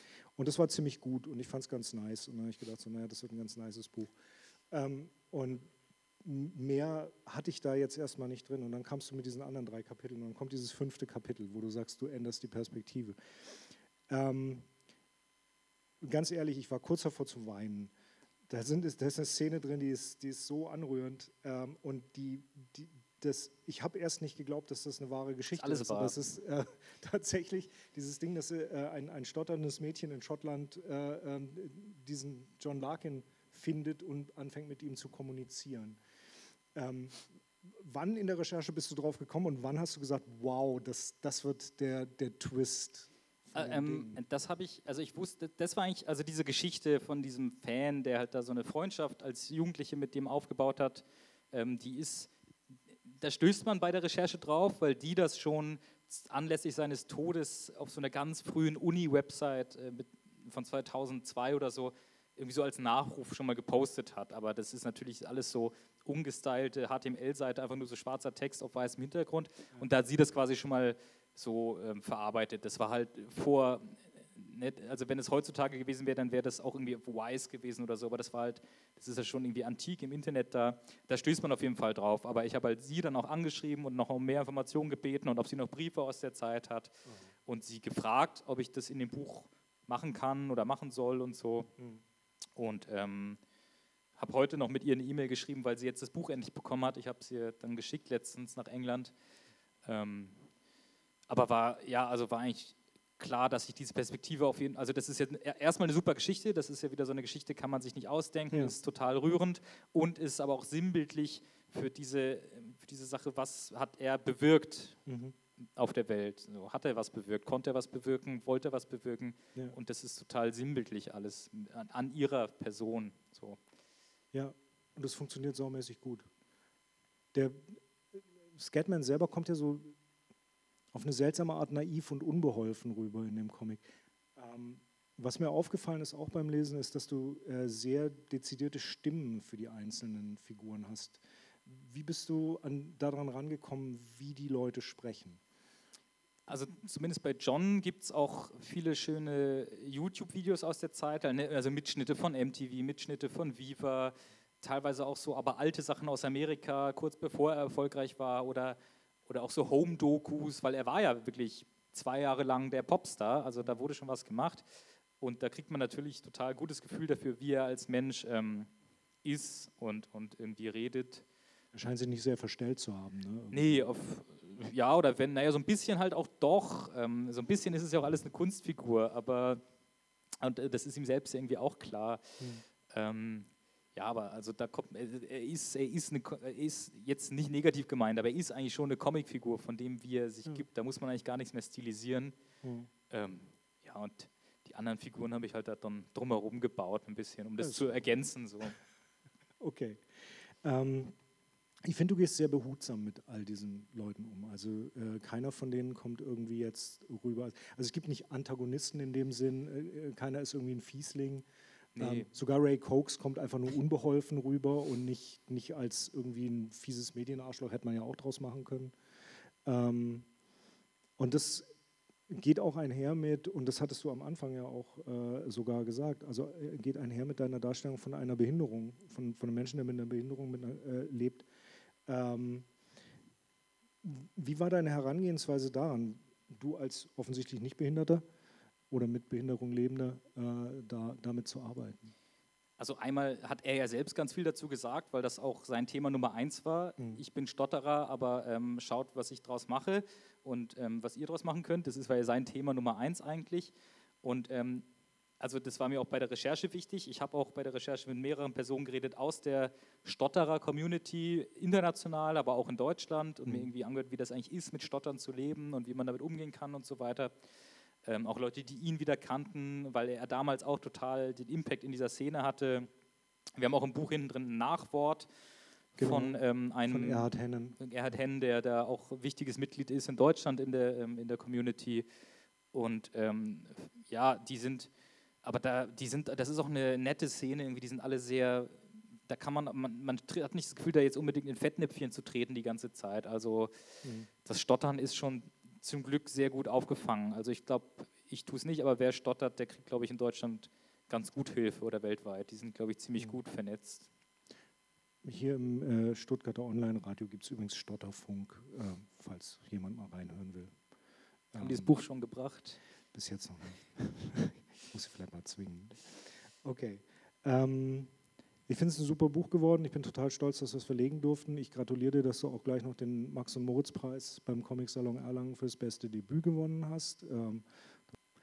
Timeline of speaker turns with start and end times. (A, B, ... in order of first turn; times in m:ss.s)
0:00.4-0:04.1 A
0:04.7-0:05.7 A
0:06.2-0:13.2 A
0:14.1-0:14.7 A
0:16.0-0:17.9 A
0:18.5-0:36.0 A
0:25.6-0:26.2 B
0:36.8-0:44.2 A
0:43.6-0:52.3 B
0:53.1-1:31.7 B
1:32.6-1:33.4 B
1:34.2-1:39.1 B
1:39.8-1:40.4 B
1:41.3-1:55.0 B
1:55.1-1:55.4 A
1:55.8-2:03.6 B
2:04.3-2:06.3 A
2:07.3-2:10.0 A
2:10.9-2:25.4 A
2:26.5-2:44.6 B
2:45.2-2:48.7 B
2:49.2-2:51.2 B
2:51.7-2:53.9 A
2:53.5-2:59.6 B
3:00.4-3:02.2 B
3:02.9-3:12.4 B
3:12.6-3:12.9 A
3:13.1-3:18.8 B
3:17.6-3:18.0 A
3:19.6-3:20.0 A
3:20.6-3:21.2 A
3:21.8-3:31.4 A
3:32.0-3:32.3 B
3:32.0-3:39.0 A
3:39.6-3:40.3 A
3:41.2-3:41.7 A
3:42.3-3:51.5 A
3:52.1-3:52.7 A
3:54.0-3:58.2 A
3:58.9-4:02.1 A
4:02.8-4:14.9 B
4:15.4-4:27.3 B
4:28.0-4:32.9 B
4:33.6-4:35.3 B
4:36.0-4:37.3 B
4:36.0-4:37.8 A
4:37.8-4:42.1 B
4:42.7-4:44.9 B
4:45.4-4:53.7 B
4:54.0-4:54.3 A
4:54.4-5:04.1 B
5:05.2-5:10.7 A
5:11.5-5:12.0 A
5:11.6-5:12.8 B
5:13.1-5:16.1 A
5:16.6-5:18.1 A
5:18.7-5:27.6 A